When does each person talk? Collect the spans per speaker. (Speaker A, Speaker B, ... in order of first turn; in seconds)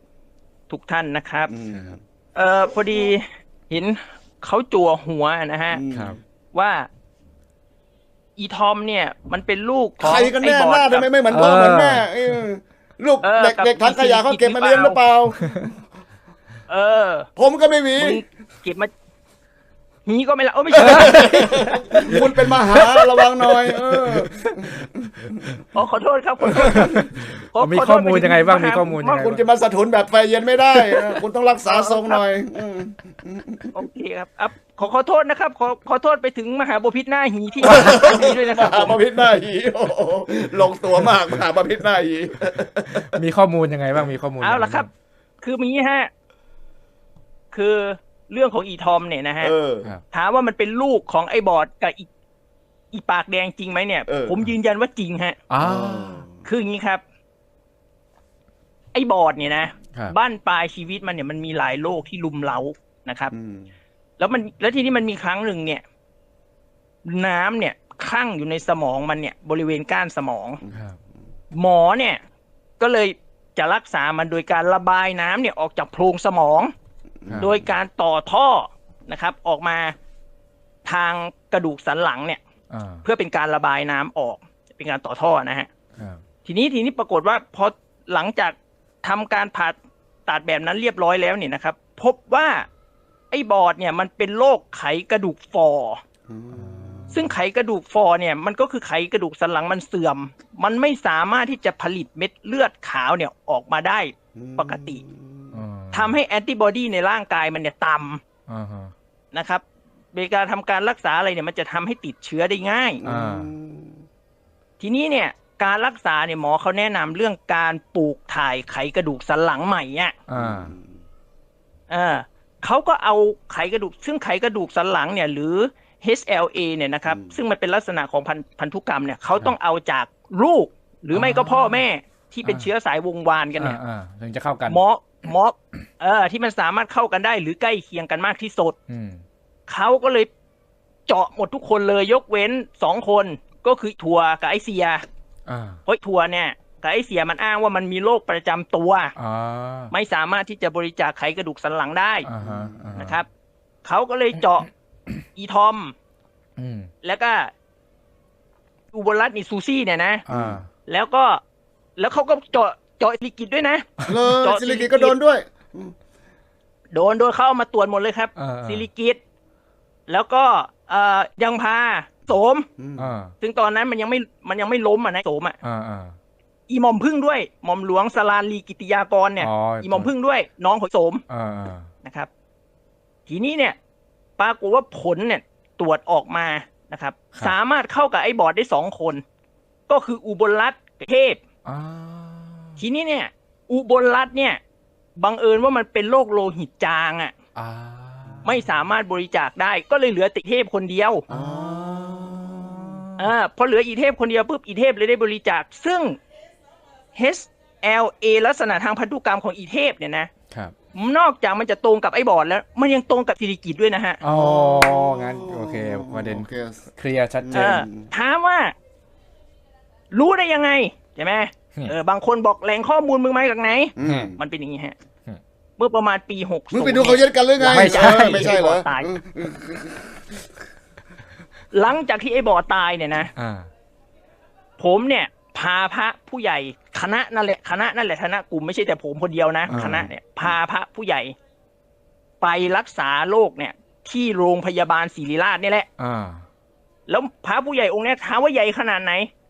Speaker A: 0.7-1.5, 2.4-5.8, 6.5-6.9, 8.4-11.1, 13.2-15.0, 16.7-17.3, 17.9-18.9, 20.1-22.2, 22.8-23.2, 25.7-29.3, 31.7-32.2, 33.7-39.0, 44.4-44.9, 45.4-46.1, 47.5-49.5, 50.1-52.1, 52.9-55.4, 56.4-57.0, 58.9-63.3, 64.2-65.8, 67.0-70.6, 71.5-72.2, 72.8-76.7, 77.4-79.9, 80.8-82.4, 83.0-85.7, 86.4-89.8, 90.3-92.7, 93.3-96.0, 97.1-105.0, 105.9-108.2, 109.3-113.0, 114.8-120.1, 121.9-133.8, 134.7-138.8, 139.7-140.3, 141.1-145.0, 145.9-149.1, 149.9-152.3, 153.0-153.3, 153.8-154.7, 155.4-155.9, 157.0-157.5, 158.9-160.2, 160.9-161.4, 162.0-165.2, 166.9-169.2, 170.1-172.7, 173.4-175.6, 176.7-181.2, 182.0-182.3, 183.3-183.8, 184.4-189.2, 189.9-191.4, 192.8-194.6, 195.2-197.3, 198.4-201.2, 203.2-206.2, 207.2-210.3, 210.9-214.2, 217.5-218.7, 220.1-224.9, 225.8-229.2, 231.7-233.3, 234.8-241.3, 242.4-245.9, 247.1-249.3
Speaker B: 1.5-2.0, 5.7-6.2, 10.0-15.8, 17.4-18.2, 20.7-25.6, 26.5-26.9, 29.1-33.7, 37.6-43.1, 49.4-49.9, 54.1-54.4, 55.6-56.4, 63.3-63.7, 77.2-77.5, 96.3-97.2, 104.3-105.6, 113.0-114.0, 120.3-121.0, 127.1-127.4, 152.4-153.0, 160.3-160.6, 164.1-165.9, 172.8-173.1, 201.3-203.0, 214.3-216.8, 217.4-218.1, 224.0-224.4, 226.7-230.5
Speaker C: 5.9-6.2, 11.3-12.4, 20.8-21.1, 22.1-22.6, 24.0-24.3, 26.5-29.4, 41.0-41.4, 42.5-44.9, 55.5-56.2, 70.7-71.0, 77.3-77.6, 82.7-83.0, 86.0-86.2, 96.5-97.3, 105.5-106.2, 108.5-108.9, 113.0-113.5, 120.3-120.7, 131.1-131.8, 132.4-132.7, 133.6-134.8, 138.9-139.2, 145.5-145.8, 149.2-149.9, 152.2-153.2, 156.6-156.9, 160.2-160.7, 168.4-168.9, 173.0-173.3, 175.6-176.2, 179.4-180.1, 181.3-181.9, 191.7-192.8, 197.6-198.7, 201.3-203.3, 214.2-217.8, 224.0-224.3, 227.6-228.6, 233.3-233.7, 239.7-240.1, 246.0-246.4